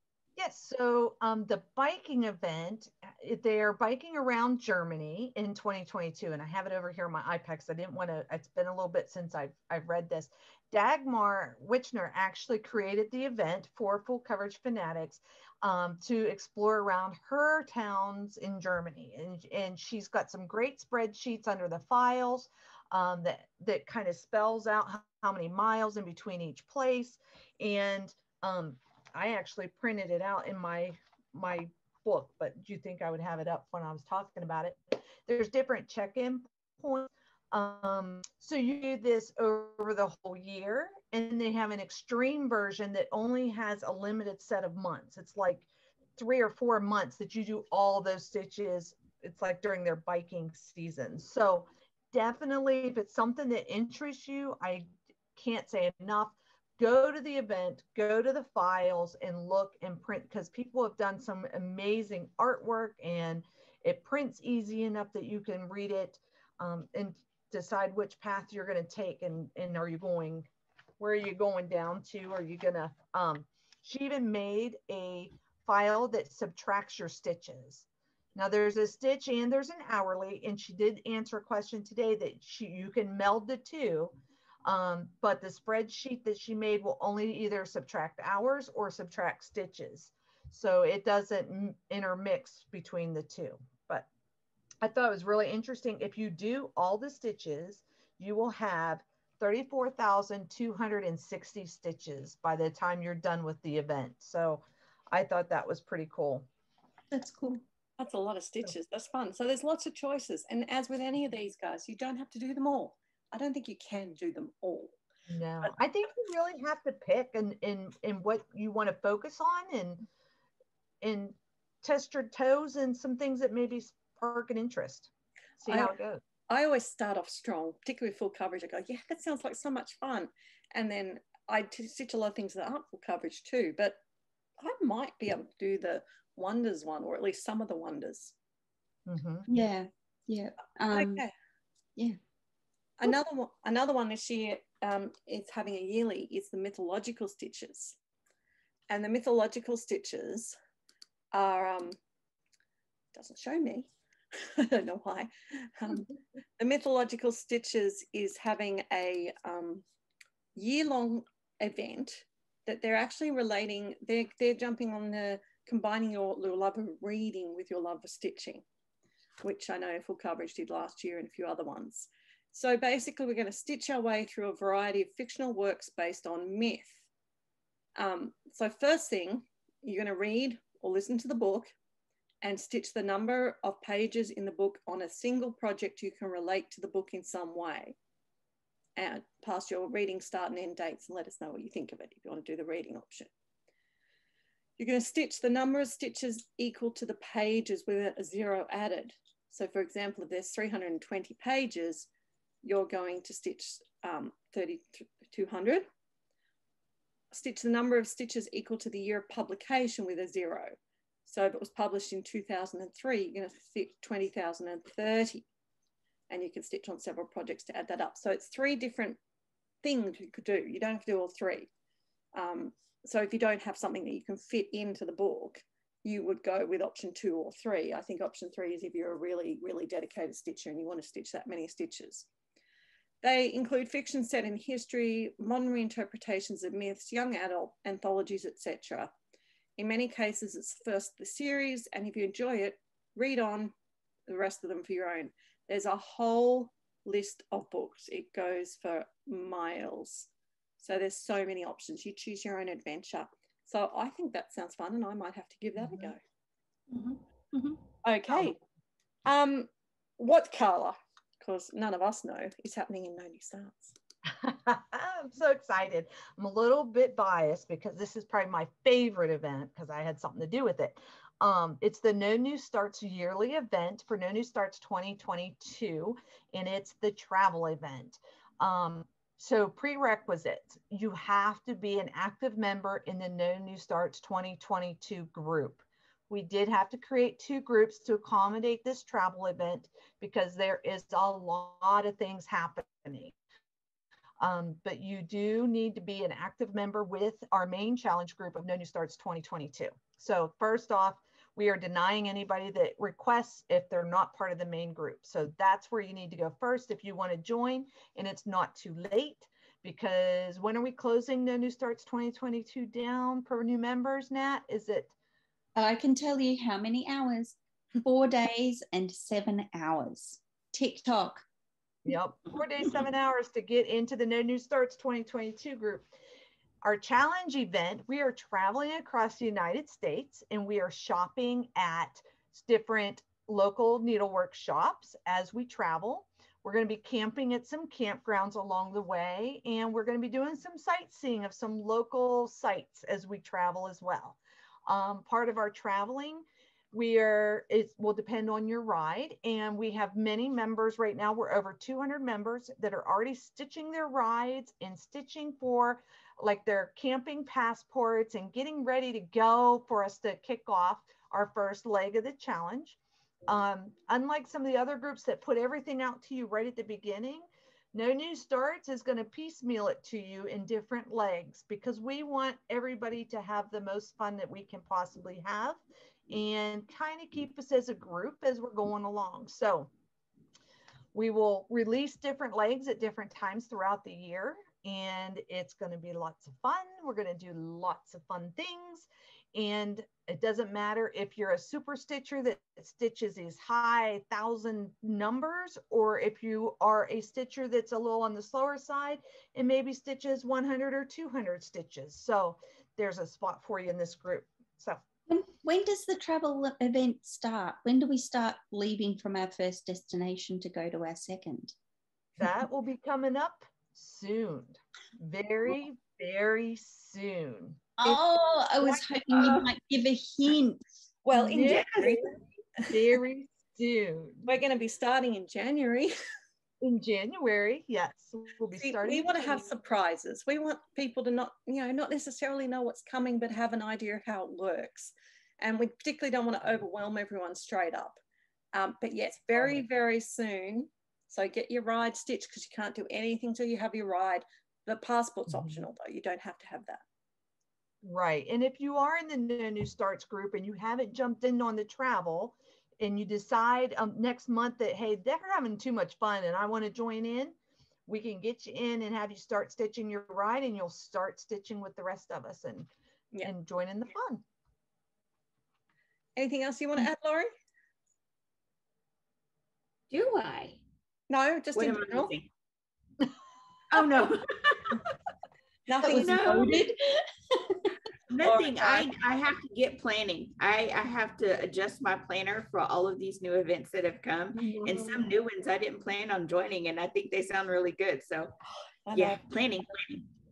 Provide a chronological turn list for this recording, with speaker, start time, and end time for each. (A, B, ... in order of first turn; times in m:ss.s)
0:00.4-1:10.5 A
1:11.0-1:34.1 A
1:34.8-1:46.5 A
1:47.1-1:47.6 B
1:48.0-1:55.0 C
1:55.3-2:00.1 A
2:01.0-2:06.2 A
2:05.7-2:05.9 C
2:06.5-2:14.0 C
2:14.6-2:18.4 C
2:19.1-2:19.5 A
2:19.5-2:21.3 B
2:20.9-2:21.3 C
2:23.0-2:28.0 C
2:28.9-2:30.5 C
2:31.3-2:32.0 C
2:33.1-2:39.8 C
2:40.6-2:48.6 C
2:49.4-2:57.0 C
2:58.0-3:01.7 C
3:02.4-3:08.0 C
3:09.0-3:13.3 C
3:14.8-3:22.1 C
3:22.6-3:25.9 C
3:27.3-3:35.5 C
3:36.3-3:39.2 C
3:39.8-3:41.7 C
3:42.3-3:52.3 C
3:53.2-3:59.1 C
3:59.8-4:03.7 C
4:04.3-4:16.2 C
4:16.9-4:17.8 D
4:18.0-4:18.6 C
4:19.3-4:24.0 C
4:24.3-4:53.4 A
4:54.4-5:15.1 A
5:15.8-5:21.4 B
5:22.1-5:26.1 A
5:26.8-6:19.9 A
6:21.1-6:45.0 A
6:45.3-6:51.8 B
6:52.4-6:58.2 A
6:58.0-7:00.8 B
7:01.2-7:02.3 C
7:01.3-7:04.5 A
7:04.5-7:06.1 C
7:06.8-7:09.7 A
7:08.8-7:18.2 C
7:18.7-7:27.0 C
7:19.6-7:19.8 A
7:25.5-7:25.8 A
7:28.0-7:37.6 A
7:38.1-7:42.9 A
7:43.4-7:44.4 A
7:46.4-7:47.5 C
7:50.1-7:50.8 D
7:51.3-7:52.3 C
7:51.8-7:52.5 D
7:53.9-7:55.0 D
7:55.9-7:56.9 C
7:56.0-7:56.8 D
7:56.0-7:57.0 B
7:58.3-8:08.6 D
7:58.4-7:59.1 C
8:09.0-8:09.4 C
8:09.1-8:10.3 D